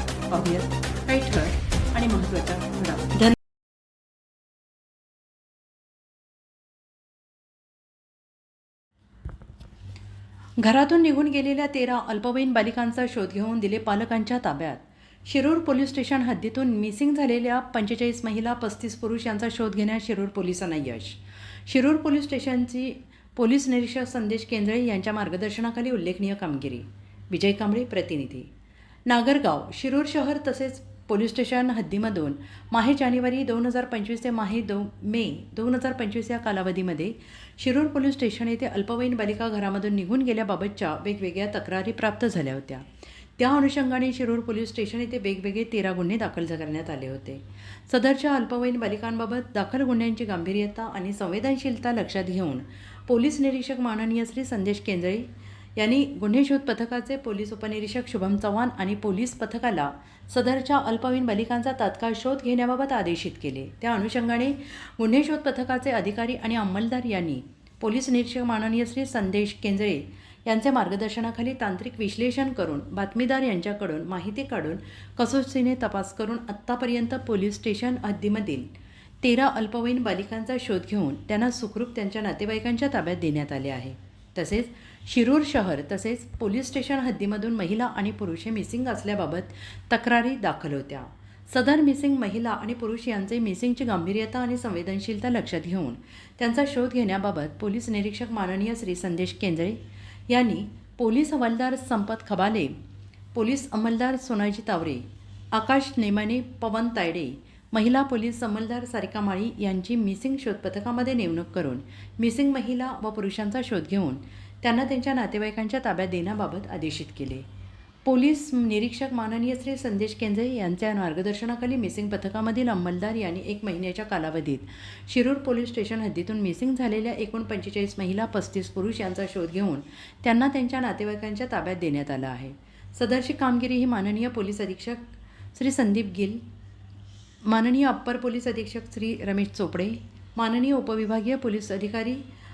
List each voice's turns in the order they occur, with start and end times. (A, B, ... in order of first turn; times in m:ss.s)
0:00.3-0:03.4 A
0:10.6-0:28.5 A
0:29.1-0:42.8 A
0:43.4-1:18.7 A
1:19.2-1:39.8 A
1:40.3-1:42.8 A
1:43.3-1:57.4 A
1:58.0-2:16.4 A
2:17.4-2:22.2 A